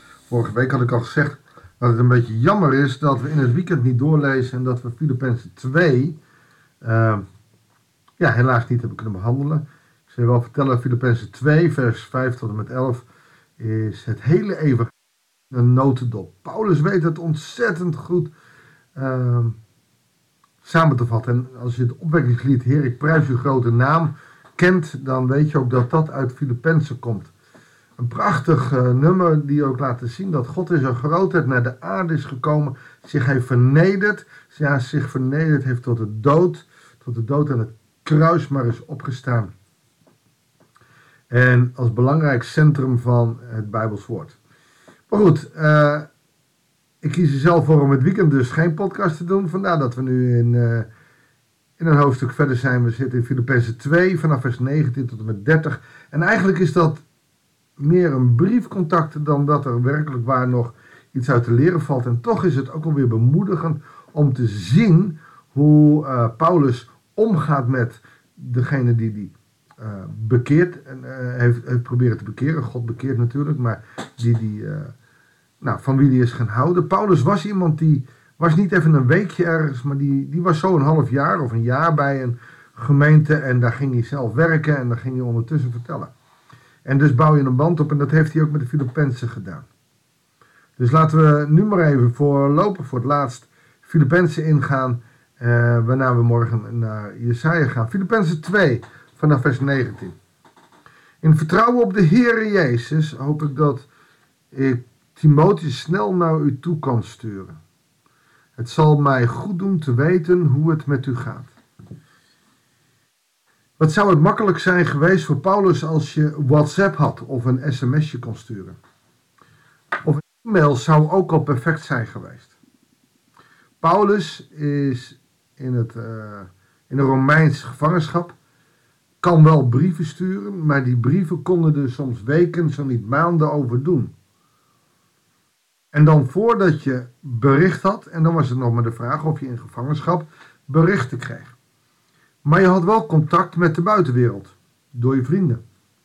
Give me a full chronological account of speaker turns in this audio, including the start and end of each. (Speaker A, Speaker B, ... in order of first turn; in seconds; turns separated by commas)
Speaker A: 0.3-6.2, Speaker A: 6.8-7.2, Speaker A: 8.2-13.1, Speaker A: 13.6-14.9, Speaker A: 15.5-18.3, Speaker A: 19.0-19.6, Speaker A: 20.6-27.3, Speaker A: 28.0-39.5, Speaker A: 41.3-44.4, Speaker A: 45.1-46.1, Speaker A: 47.0-50.9, Speaker A: 51.8-57.0, Speaker A: 57.8-74.9, Speaker A: 75.6-86.1, Speaker A: 86.8-89.7, Speaker A: 90.8-100.2, Speaker A: 101.2-103.9, Speaker A: 104.5-107.6, Speaker A: 108.5-111.5, Speaker A: 113.8-118.8, Speaker A: 120.0-122.6, Speaker A: 123.8-128.3, Speaker A: 129.2-134.1, Speaker A: 135.9-141.5, Speaker A: 142.4-145.6